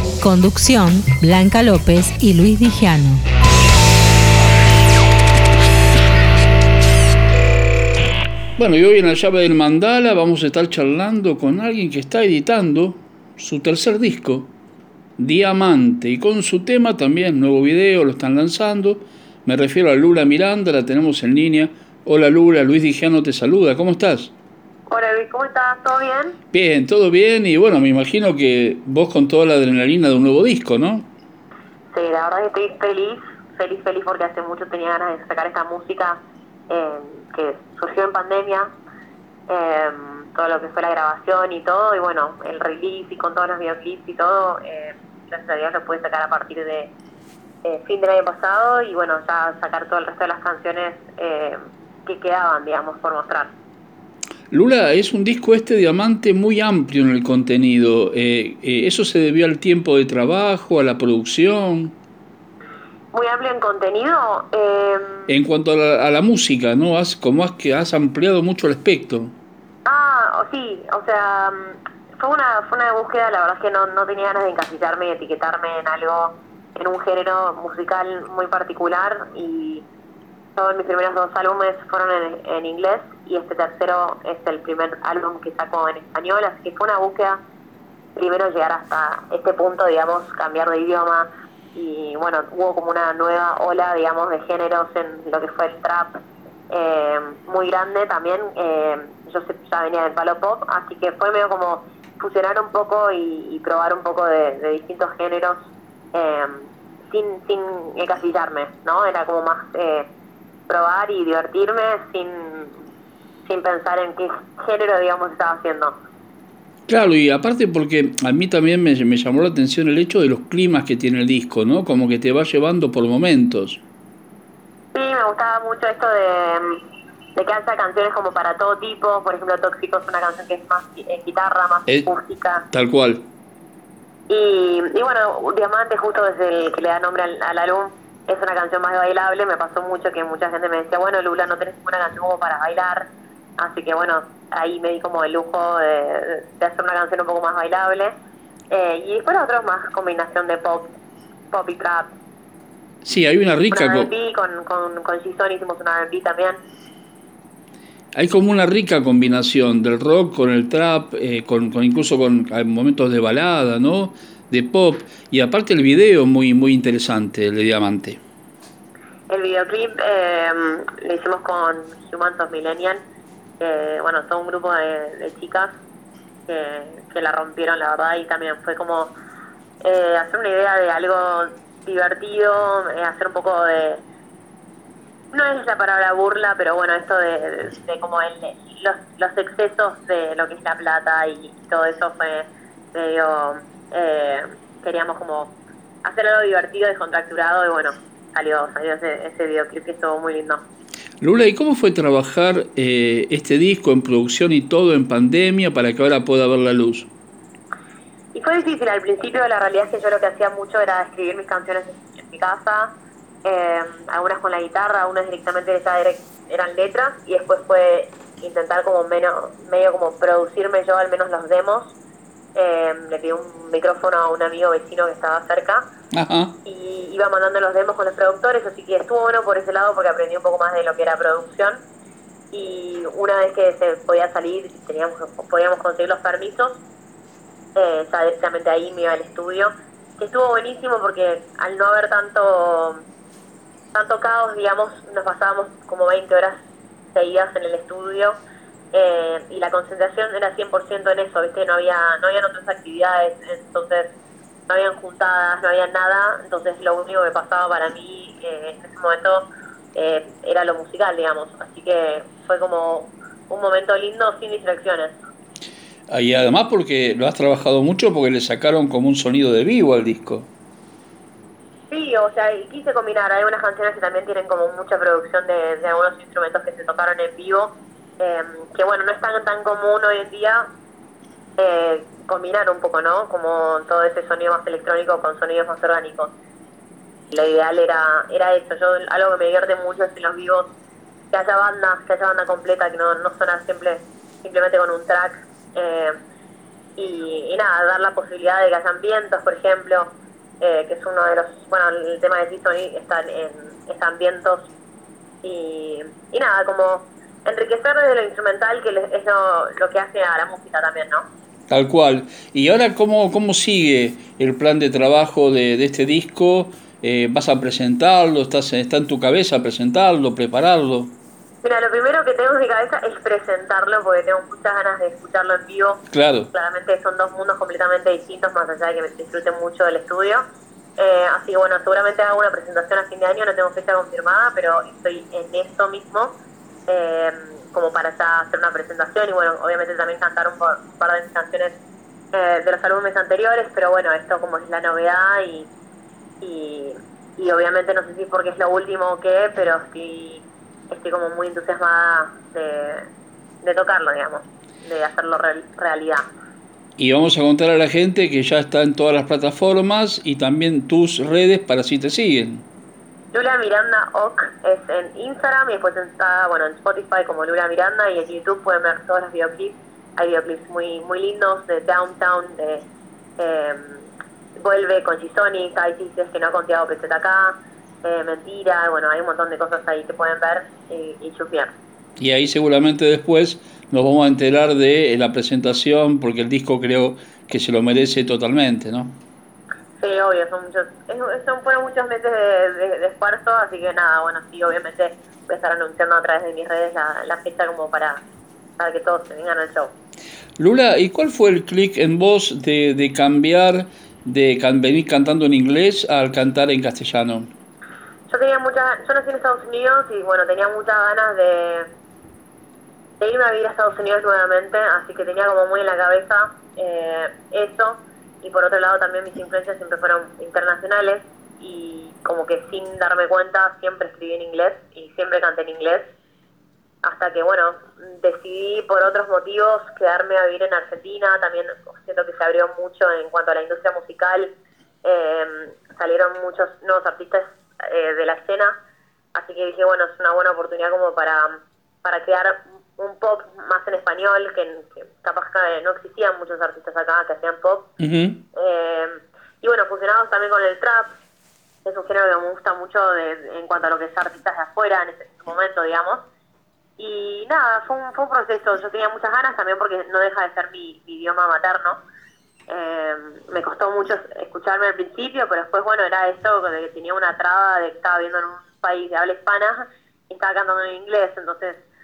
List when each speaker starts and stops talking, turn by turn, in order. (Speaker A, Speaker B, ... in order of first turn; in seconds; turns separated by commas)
Speaker A: 0.2-3.2, Speaker B: 8.6-14.5, Speaker B: 15.2-24.3, Speaker C: 24.9-26.4, Speaker B: 26.5-31.1, Speaker C: 31.9-38.7, Speaker C: 39.5-46.9, Speaker C: 47.6-53.5, Speaker B: 54.5-61.9, Speaker C: 63.1-65.3, Speaker B: 65.3-69.3, Speaker C: 69.8-79.8, Speaker C: 80.5-87.4, Speaker C: 88.2-110.1, Speaker C: 110.7-112.8, Speaker C: 113.4-116.0, Speaker B: 116.9-123.8, Speaker C: 124.9-126.8, Speaker C: 127.3-132.7, Speaker B: 132.7-133.2, Speaker C: 134.3-148.1, Speaker C: 148.7-150.9, Speaker C: 151.5-152.1, Speaker B: 153.0-154.1, Speaker C: 153.7-156.6, Speaker B: 158.1-168.2, Speaker C: 169.3-173.0, Speaker C: 173.6-175.7, Speaker C: 176.5-179.1, Speaker C: 179.8-184.0, Speaker C: 185.3-200.6, Speaker B: 201.2-207.1, Speaker C: 208.3-212.9, Speaker C: 213.4-221.9, Speaker C: 222.5-225.8, Speaker B: 226.1-226.5, Speaker C: 226.6-231.8, Speaker C: 232.5-236.8, Speaker C: 237.7-243.0, Speaker C: 243.9-246.6, Speaker C: 247.1-248.4, Speaker C: 248.9-254.1, Speaker C: 254.7-265.1, Speaker B: 266.1-270.5, Speaker C: 271.9-280.6, Speaker C: 281.6-286.3, Speaker C: 287.3-290.7, Speaker C: 291.3-296.2, Speaker C: 296.9-304.7, Speaker C: 305.4-311.3, Speaker B: 311.7-321.1, Speaker C: 321.6-330.4, Speaker B: 326.1-326.5, Speaker C: 330.9-336.3, Speaker C: 336.9-341.8, Speaker C: 342.3-345.7, Speaker C: 346.4-353.1, Speaker C: 353.6-356.2, Speaker B: 357.0-362.6, Speaker C: 363.3-372.9, Speaker C: 373.4-381.7, Speaker B: 382.2-389.2, Speaker C: 390.0-398.2, Speaker C: 398.8-399.9, Speaker B: 400.6-407.5, Speaker C: 408.3-411.9, Speaker C: 413.2-426.1, Speaker C: 427.0-438.8, Speaker C: 439.3-447.9, Speaker B: 448.0-448.4, Speaker C: 448.5-451.1, Speaker C: 451.8-456.2, Speaker C: 457.0-462.0, Speaker C: 462.7-471.8